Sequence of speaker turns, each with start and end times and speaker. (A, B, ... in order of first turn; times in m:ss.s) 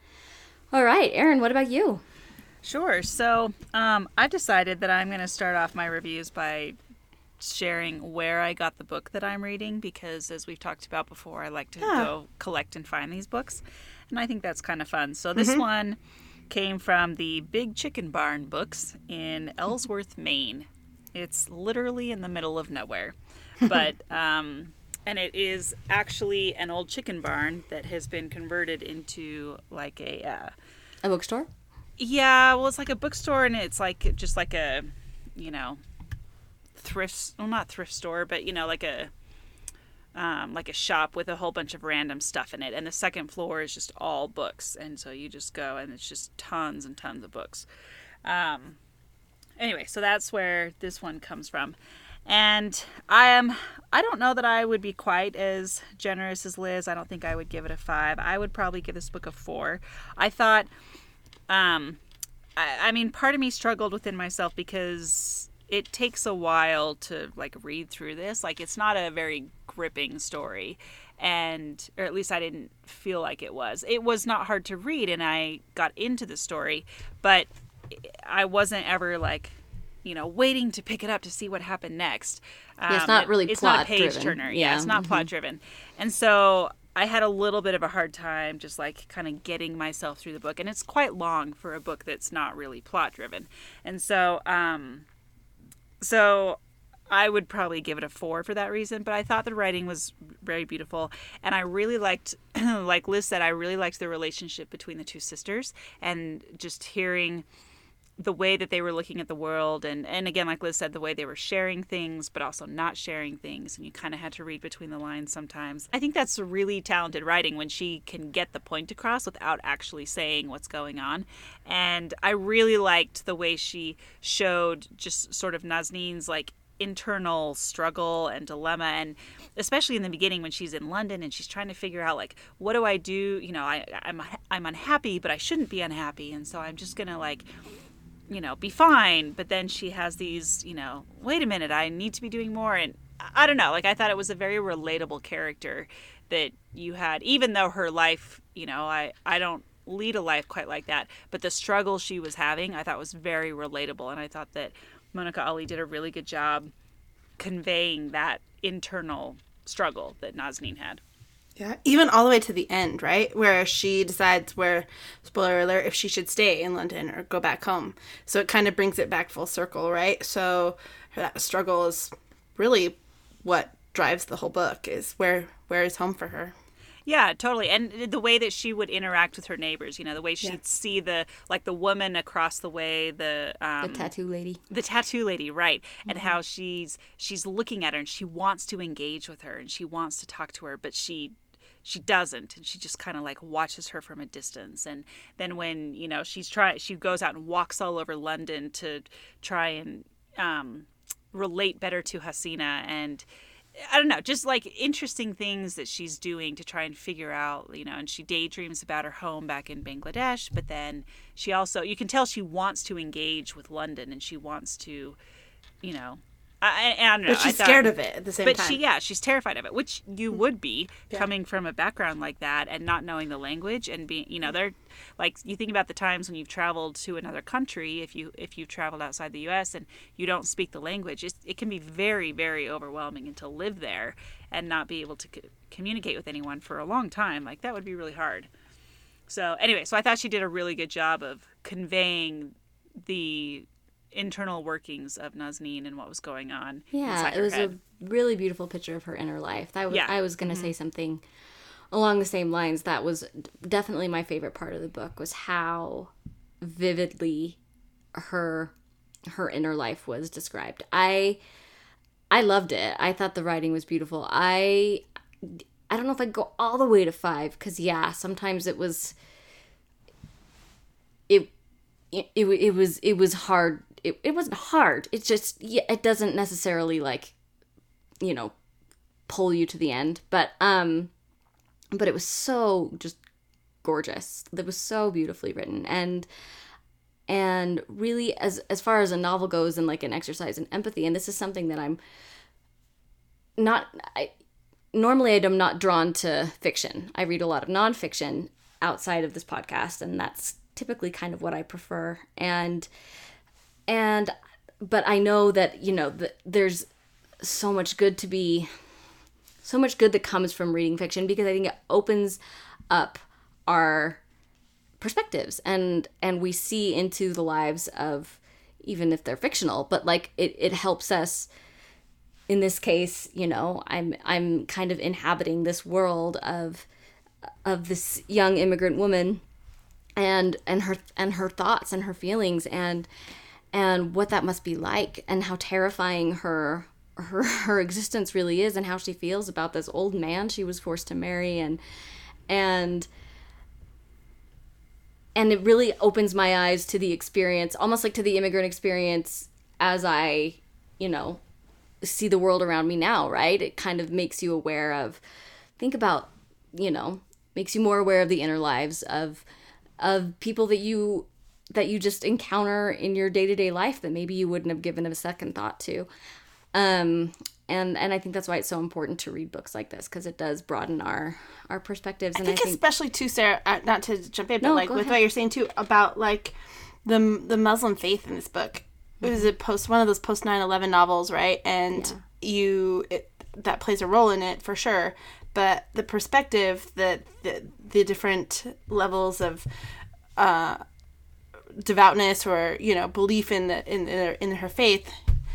0:00.7-0:02.0 A
0:02.6-0:06.8 B
0:07.4-0:16.0 B
0:11.8-0:12.1 C
0:15.4-0:15.6 C
0:16.5-0:30.5 B
0:31.0-0:31.5 A
0:32.0-0:35.8 B
0:36.8-0:39.1 B
0:40.1-0:47.6 B
0:48.2-0:48.8 B
0:49.6-1:00.7 B
1:01.5-1:02.0 B
1:02.6-1:35.0 B
1:22.9-1:25.3 A
1:36.0-1:47.4 B
1:48.2-2:17.5 B
2:18.3-2:36.7 B
2:37.4-2:41.0 B
2:41.6-2:56.5 C
2:57.0-3:04.1 B
3:03.8-3:04.6 A
3:04.7-3:23.2 B
3:23.8-3:35.2 B
3:35.8-3:37.9 B
3:37.3-3:38.8 C
3:38.4-3:58.5 B
3:59.3-4:07.7 B
4:06.9-4:11.2 A
4:09.9-4:10.7 B
4:11.9-4:16.1 A
4:16.6-4:17.6 A
4:18.1-4:18.7 A
4:19.3-4:21.4 A
4:22.3-4:29.1 A
4:32.1-4:37.3 A
4:38.2-4:38.5 A
4:39.3-4:41.1 A
4:41.9-4:43.2 A
4:43.8-4:46.3 A
4:47.3-4:52.0 A
4:53.6-4:54.3 A
4:54.9-5:02.9 A
5:03.9-5:06.9 A
5:07.4-5:08.7 A
5:09.6-5:14.2 A
5:15.0-5:21.5 A
5:22.5-5:26.9 A
5:27.6-5:29.4 A
5:30.2-5:33.1 A
5:33.7-5:41.8 A
5:42.5-5:43.1 A
5:45.4-5:51.4 A
5:52.0-5:55.2 A
5:55.8-5:59.4 A
6:00.0-6:06.1 A
6:06.7-6:12.8 A
6:12.4-6:29.7 C
6:14.6-6:15.2 A
6:19.2-6:19.5 A
6:21.9-6:22.2 A
6:30.4-6:30.8 C
6:31.8-6:35.2 C